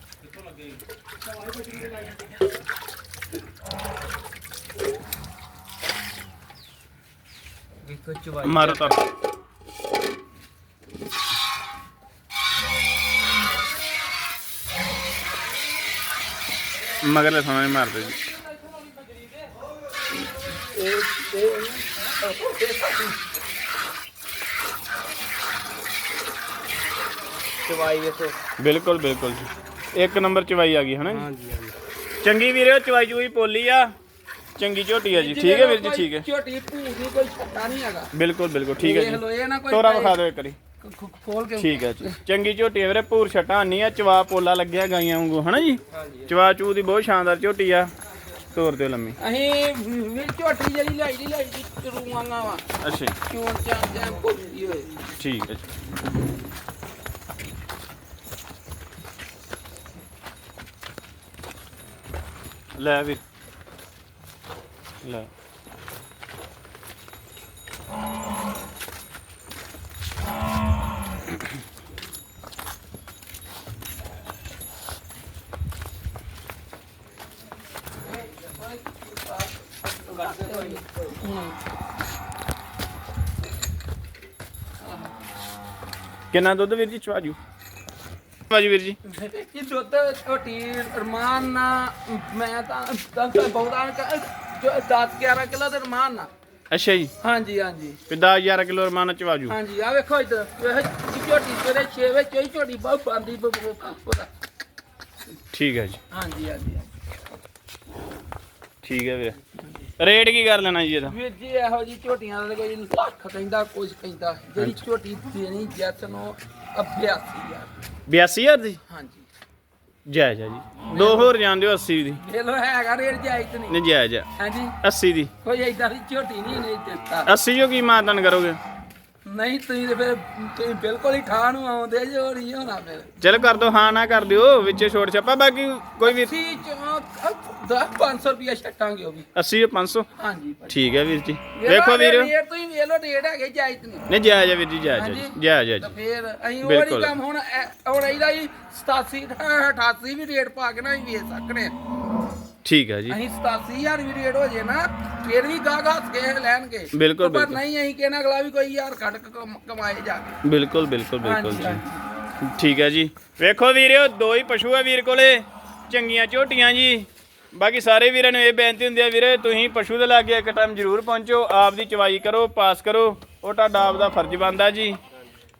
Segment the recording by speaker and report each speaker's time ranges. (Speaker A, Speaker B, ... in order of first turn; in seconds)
Speaker A: 7.8-9.0, 27.6-28.4, 31.0-31.7, 45.9-46.4, 80.1-81.2
Speaker B: 8.4-9.0, 17.0-18.2, 28.6-31.2, 32.2-33.9, 34.6-36.2, 38.1-40.6, 41.6-47.9, 48.5-49.2, 52.8-53.1, 55.2-55.6, 62.8-63.2, 65.0-65.3, 86.3-87.4, 88.5-89.0, 96.7-97.1, 98.1-99.5, 105.5-106.0, 108.8-109.3, 110.0-111.1, 114.6-114.8, 118.1-118.8, 120.1-122.2, 123.7-124.3, 124.8-125.3, 127.2-128.6, 133.2-136.3, 139.3-140.1, 140.7-142.3, 144.1-145.9, 146.6-147.1, 152.6-153.2, 156.9-157.6, 160.4-161.8, 162.4-175.0
Speaker C: 20.5-23.2, 35.1-38.1, 38.8-40.2, 40.8-42.2, 49.2-52.6, 53.2-55.0, 78.2-81.6, 84.8-85.1, 89.0-96.3, 97.2-98.0, 99.5-104.3, 106.1-106.9, 109.5-109.9, 111.0-117.7, 118.9-119.2, 120.8-121.3, 122.2-123.8, 124.4-124.8, 125.4-127.3, 129.2-133.2, 136.0-139.3, 140.2-140.8, 141.5-144.1, 144.9-151.7, 153.1-160.4, 161.2-162.1